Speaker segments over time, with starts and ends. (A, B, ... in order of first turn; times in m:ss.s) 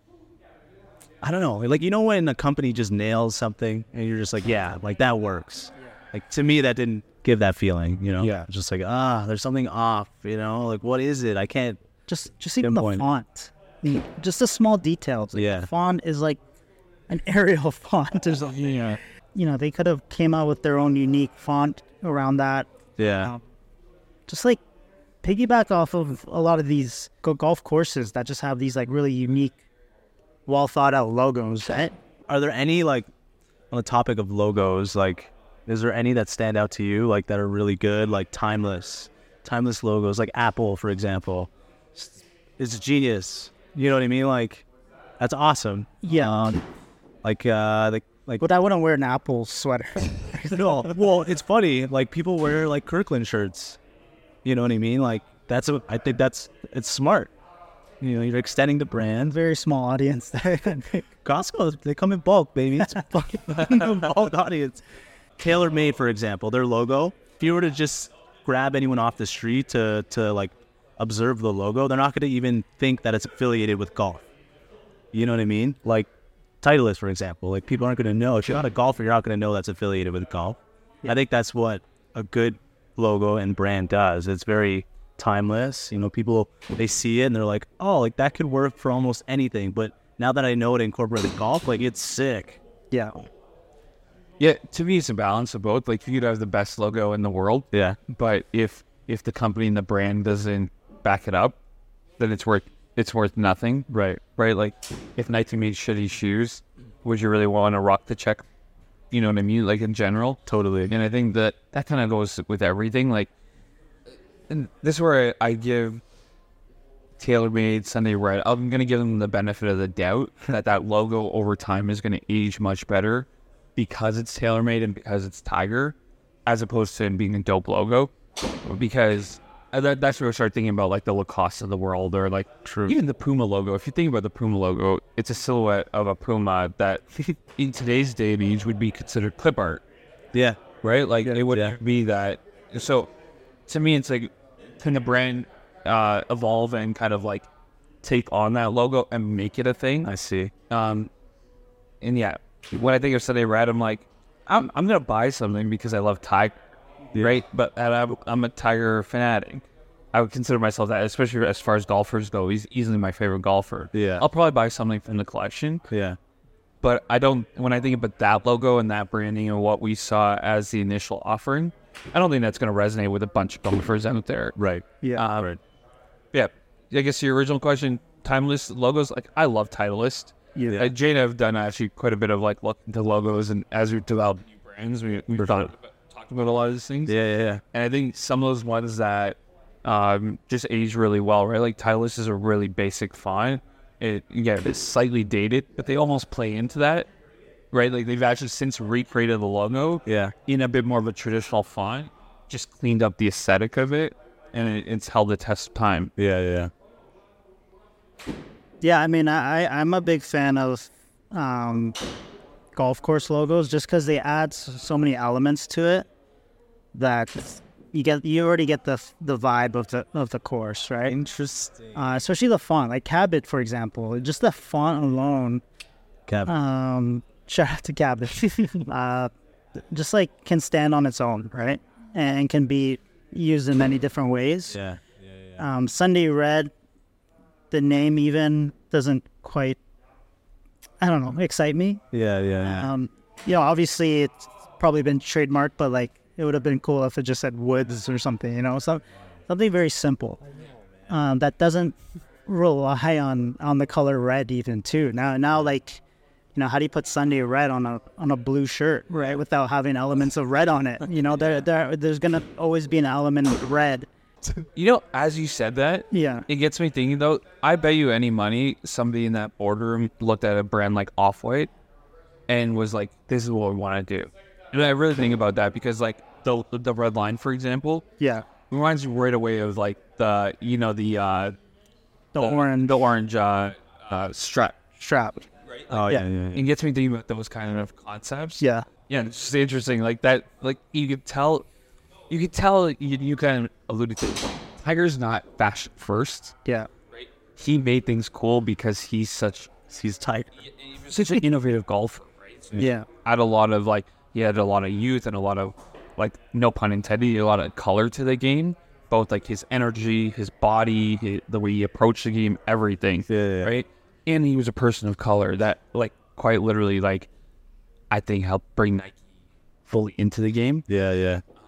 0:01.2-0:11.8 A
0:08.2-0:08.5 B
0:12.1-0:16.4 C
0:12.6-0:13.0 A
0:15.4-0:15.7 A
0:17.1-0:18.7 C
0:18.5-0:19.0 B
0:19.4-0:22.7 C
0:23.0-0:23.3 A
0:24.3-0:24.6 C
0:25.2-0:29.6 C
0:30.5-0:32.0 C
0:32.3-0:33.1 A
0:33.7-0:44.7 A
0:45.2-0:46.6 A
0:46.0-0:46.3 C
0:47.2-0:48.4 A
0:48.4-0:50.9 C
0:50.5-0:53.8 A
0:54.4-0:57.3 A
0:58.0-0:59.4 A
0:59.3-1:01.0 C
1:01.2-1:04.8 A
1:05.4-1:14.3 A
1:15.1-1:16.1 A
1:16.6-1:32.6 A
1:34.4-1:41.6 B
1:37.7-1:38.0 A
1:42.2-1:48.4 B
1:43.9-1:44.2 A
1:49.1-1:53.3 B
1:50.5-1:50.9 A
1:54.5-1:56.0 B
1:57.2-2:08.1 B
2:08.6-2:19.8 B
2:12.6-2:13.0 A
2:20.3-2:20.6 A
2:20.8-2:23.1 B
2:21.2-2:21.8 A
2:23.7-2:27.5 B
2:28.0-2:30.1 B
2:30.0-2:30.5 A
2:30.7-2:31.1 B
2:32.0-2:36.6 B
2:37.1-2:45.8 B
2:43.9-2:44.2 A
2:45.9-2:46.2 A
2:46.8-2:54.6 B
2:54.6-2:55.6 A
2:55.2-2:55.5 B
2:56.3-3:07.2 B
3:05.4-3:05.7 A
3:07.1-3:07.6 A
3:07.7-3:17.1 B
3:17.7-3:26.1 B
3:20.1-3:20.3 A
3:26.2-3:26.7 A
3:28.8-3:32.0 C
3:32.7-3:36.1 C
3:36.9-3:41.2 C
3:41.1-3:42.0 A
3:42.0-3:45.6 C
3:46.3-3:46.5 A
3:46.5-3:49.3 C
3:49.9-3:54.8 C
3:54.7-3:55.6 A
3:55.6-3:56.7 C
3:57.7-3:59.8 C
4:01.0-4:02.0 C
4:02.1-4:02.9 A
4:02.6-4:10.4 C
4:11.1-4:12.0 C
4:12.5-4:16.0 C
4:16.6-4:24.1 C
4:24.8-4:31.7 B
4:26.1-4:26.5 C
4:32.5-4:38.0 B
4:38.2-4:38.5 C
4:38.7-4:41.6 B
4:42.3-4:43.0 C
4:42.4-4:44.8 B
4:45.0-4:45.4 C
4:45.7-4:51.7 B
4:45.9-4:46.6 A
4:48.6-4:48.9 C
4:52.3-4:56.6 B
4:57.1-4:59.7 B
4:59.9-5:00.5 A
5:00.6-5:17.3 B
5:02.8-5:03.1 C
5:13.3-5:13.7 A
5:18.1-5:19.2 B
5:19.9-5:20.8 B
5:20.9-5:21.4 A